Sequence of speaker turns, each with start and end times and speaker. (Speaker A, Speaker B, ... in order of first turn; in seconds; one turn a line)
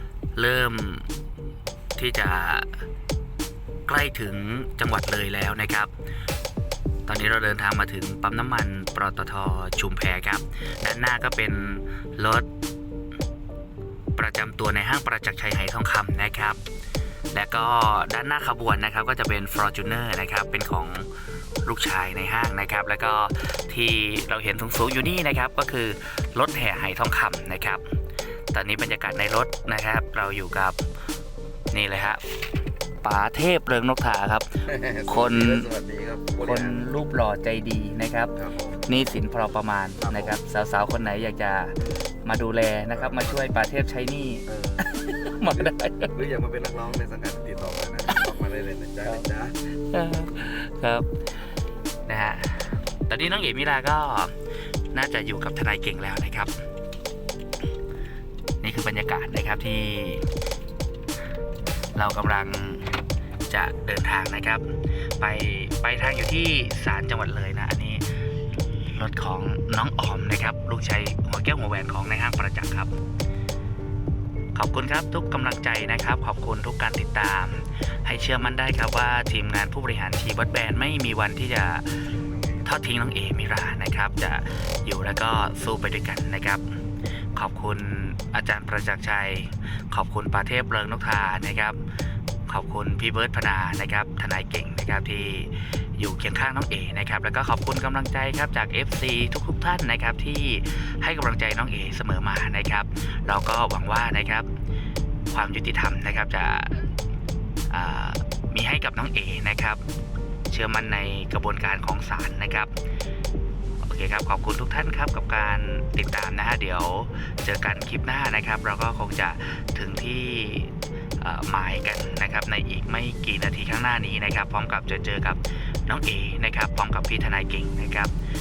Speaker A: 0.3-1.1
Speaker A: 2.0-2.8
Speaker A: 3.9-5.9
Speaker A: 7.1-12.5
Speaker A: 14.2-16.6
Speaker A: 17.3-21.1
Speaker A: 21.6-27.9
Speaker A: 28.5-30.8
Speaker A: 31.7-32.2
Speaker A: 33.0-35.7
Speaker B: 34.7-36.8
Speaker A: 36.4-38.3
Speaker B: 38.4-38.8
Speaker A: 38.9-46.2
Speaker B: 40.0-40.4
Speaker B: 42.9-43.5
Speaker B: 44.5-44.9
Speaker B: 45.5-49.5
Speaker A: 49.8-51.1
Speaker A: 52.1-54.3
Speaker A: 54.9-56.5
Speaker A: 58.6-60.3
Speaker A: 62.0-62.9
Speaker A: 63.5-64.7
Speaker A: 65.2-68.1
Speaker A: 68.7-73.0
Speaker A: 74.5-82.0
Speaker B: 82.2-82.7
Speaker A: 82.6-86.8
Speaker A: 87.3-91.8
Speaker A: 92.5-104.5
Speaker A: 105.3-106.9
Speaker A: 107.7-109.8
Speaker A: 110.5-112.7
Speaker A: 113.8-128.1